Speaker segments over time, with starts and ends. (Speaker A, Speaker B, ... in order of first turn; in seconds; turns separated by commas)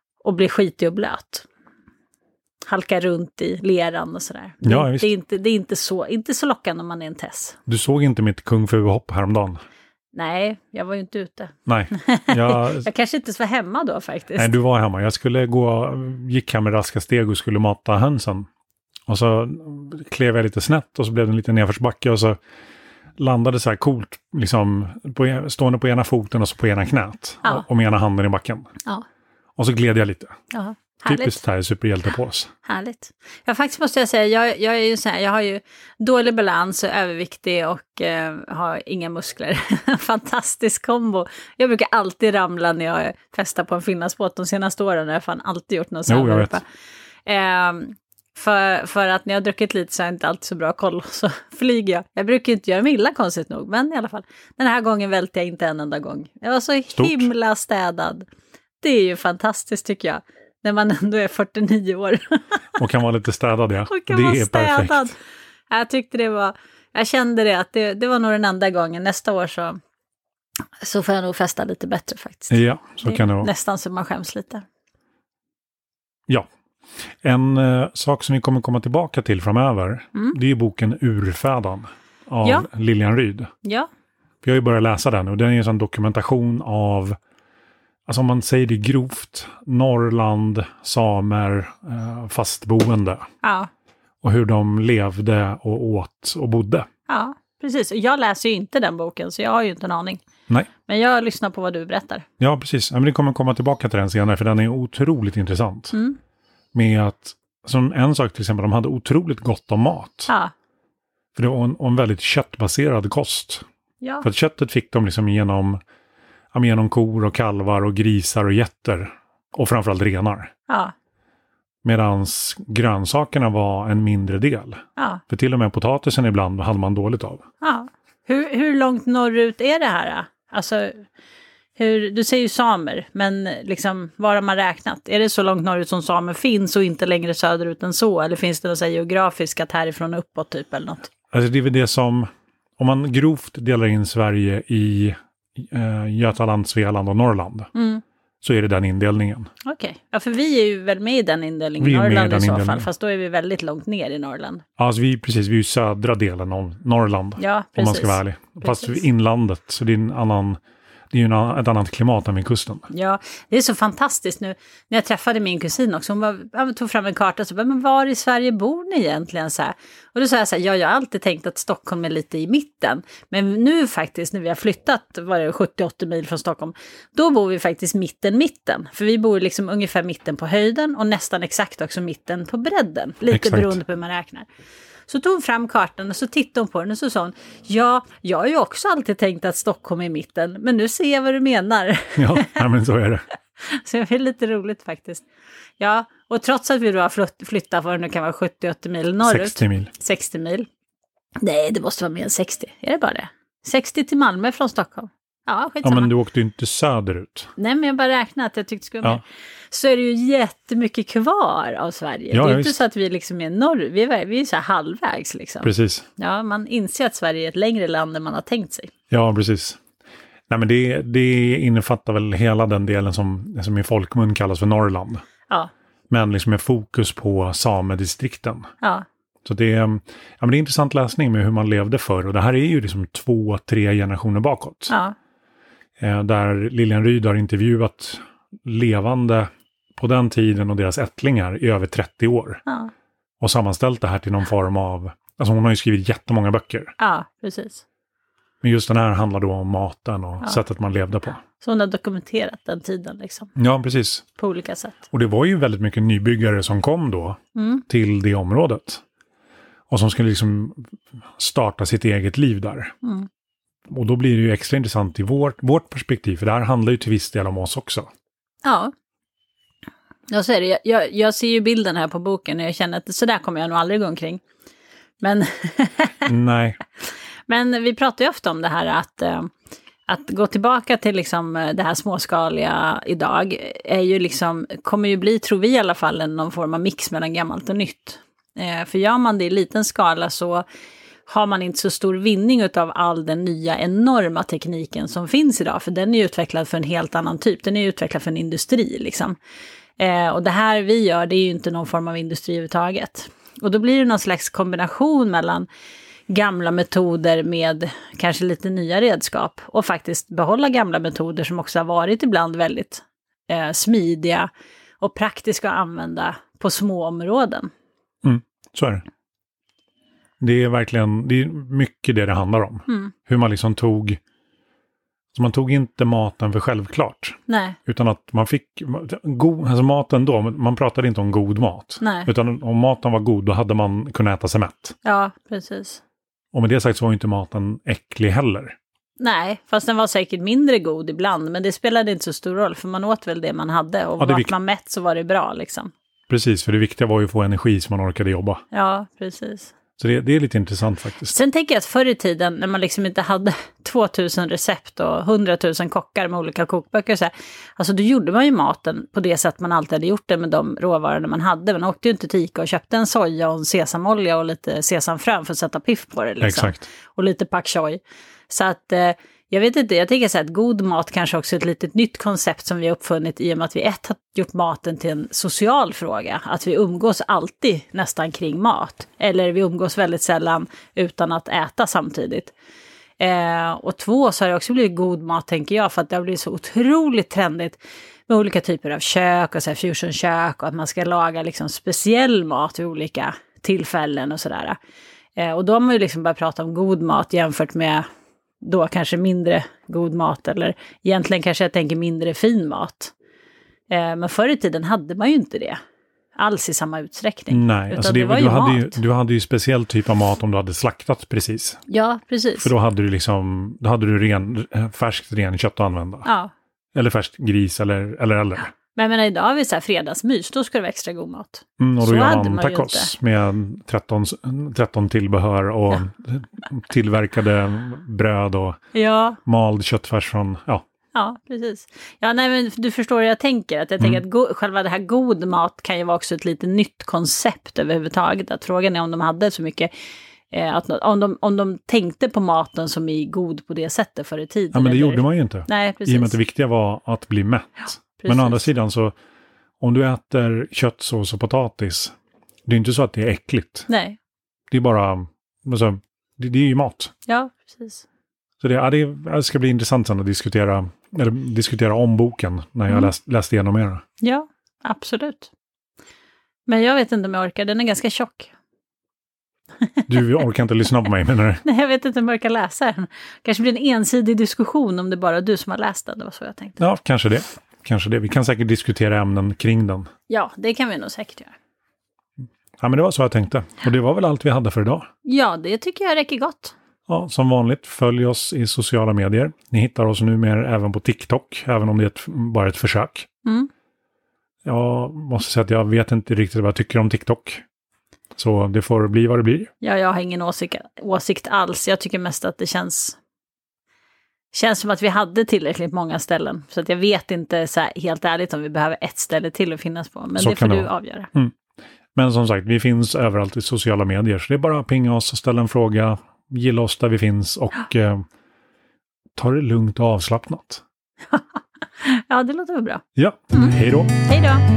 Speaker A: 0.2-1.5, Speaker A: 2.7-7.6, Speaker B: 4.6-5.1, Speaker B: 7.7-9.6, Speaker A: 10.1-14.5, Speaker B: 11.7-12.9, Speaker B: 14.3-18.5, Speaker B: 19.1-22.4, Speaker B: 23.2-28.7, Speaker B: 29.6-30.3, Speaker A: 30.5-31.4, Speaker B: 31.1-32.5, Speaker A: 32.6-46.6, Speaker B: 46.1-46.6, Speaker A: 47.2-58.2, Speaker B: 56.9-57.3, Speaker A: 58.8-62.6, Speaker B: 62.8-65.1, Speaker A: 63.9-65.2, Speaker A: 65.7-69.8, Speaker A: 70.8-74.6, Speaker B: 72.5-73.5, Speaker B: 77.2-83.5, Speaker A: 83.6-83.9, Speaker B: 84.4-87.2, Speaker B: 88.1-93.2, Speaker A: 93.4-93.7, Speaker B: 94.2-96.8, Speaker A: 97.1-100.2, Speaker A: 100.9-102.2, Speaker B: 102.4-106.0, Speaker A: 105.9-106.2, Speaker B: 106.7-110.3, Speaker B: 111.3-113.6, Speaker A: 114.0-114.3, Speaker B: 114.2-115.8, Speaker B: 116.5-120.5, Speaker A: 120.7-120.9, Speaker B: 121.8-127.4, Speaker A: 125.0-125.2, Speaker A: 127.6-131.0, Speaker A: 131.8-141.1, Speaker B: 141.3-147.7, Speaker A: 147.7-148.0, Speaker B: 148.4-149.5, Speaker A: 149.6-154.6, Speaker B: 151.8-152.9, Speaker B: 154.8-160.6, Speaker A: 157.4-159.0, Speaker B: 161.1-162.9, Speaker A: 162.9-184.4, Speaker B: 183.3-183.8, Speaker A: 185.1-192.6, Speaker B: 192.2-193.2, Speaker A: 193.6-195.2, Speaker A: 195.8-200.7, Speaker B: 199.2-199.9, Speaker A: 201.4-206.1, Speaker B: 205.8-207.5, Speaker A: 207.6-218.9, Speaker B: 212.3-212.8, Speaker B: 215.6-216.1, Speaker B: 219.1-219.8, Speaker B: 220.5-225.2, Speaker B: 226.1-228.7, Speaker B: 229.4-234.9, Speaker B: 236.0-242.6, Speaker A: 242.7-242.9, Speaker B: 243.4-246.9, Speaker A: 247.0-247.8, Speaker B: 248.6-251.4, Speaker A: 251.6-253.5, Speaker B: 253.6-254.2, Speaker A: 254.4-255.0, Speaker B: 255.1-257.4, Speaker A: 257.5-257.8, Speaker B: 257.9-259.0, Speaker B: 259.9-262.9, Speaker B: 263.9-268.1, Speaker A: 268.6-268.9, Speaker A: 270.3-274.4, Speaker A: 275.2-276.3, Speaker B: 276.3-276.8, Speaker A: 277.5-279.5, Speaker A: 280.1-290.6, Speaker A: 291.3-299.4, Speaker A: 300.0-305.7, Speaker A: 306.3-314.5, Speaker A: 315.0-317.7, Speaker B: 318.2-319.0, Speaker B: 320.4-324.2, Speaker A: 322.9-323.1, Speaker B: 325.3-334.9, Speaker A: 327.5-327.8, Speaker A: 332.0-332.3, Speaker A: 335.0-336.0, Speaker B: 336.5-338.8, Speaker A: 339.2-345.9, Speaker B: 344.2-344.5, Speaker B: 346.3-348.6, Speaker A: 348.7-349.7, Speaker B: 350.0-351.3, Speaker A: 351.3-382.5, Speaker B: 366.4-366.9, Speaker A: 383.2-394.8, Speaker A: 395.4-398.0, Speaker A: 398.6-403.1, Speaker A: 403.9-405.8, Speaker A: 406.4-409.0, Speaker B: 407.5-411.8, Speaker A: 411.9-412.7, Speaker B: 412.6-416.3, Speaker A: 416.2-416.5, Speaker B: 416.9-418.7, Speaker A: 418.9-423.1, Speaker B: 421.8-428.8, Speaker A: 428.9-429.4, Speaker B: 429.4-430.8, Speaker A: 431.1-439.9, Speaker A: 440.5-446.4, Speaker B: 444.7-449.1, Speaker A: 448.2-448.7, Speaker B: 449.8-452.1, Speaker B: 452.6-453.9, Speaker A: 453.9-454.2, Speaker B: 454.7-457.1, Speaker A: 457.3-458.0, Speaker B: 458.6-464.0, Speaker A: 464.2-465.5, Speaker A: 466.7-468.5, Speaker B: 470.1-471.6, Speaker A: 471.6-476.8, Speaker B: 476.8-480.1, Speaker A: 480.3-481.5, Speaker B: 482.8-485.1, Speaker A: 485.2-486.7, Speaker B: 487.1-493.3, Speaker B: 494.6-497.6, Speaker B: 498.4-499.7, Speaker A: 499.8-503.2, Speaker A: 504.5-511.3, Speaker B: 510.4-511.5, Speaker B: 512.1-518.2, Speaker B: 519.4-520.8, Speaker A: 521.3-524.6, Speaker B: 523.1-524.1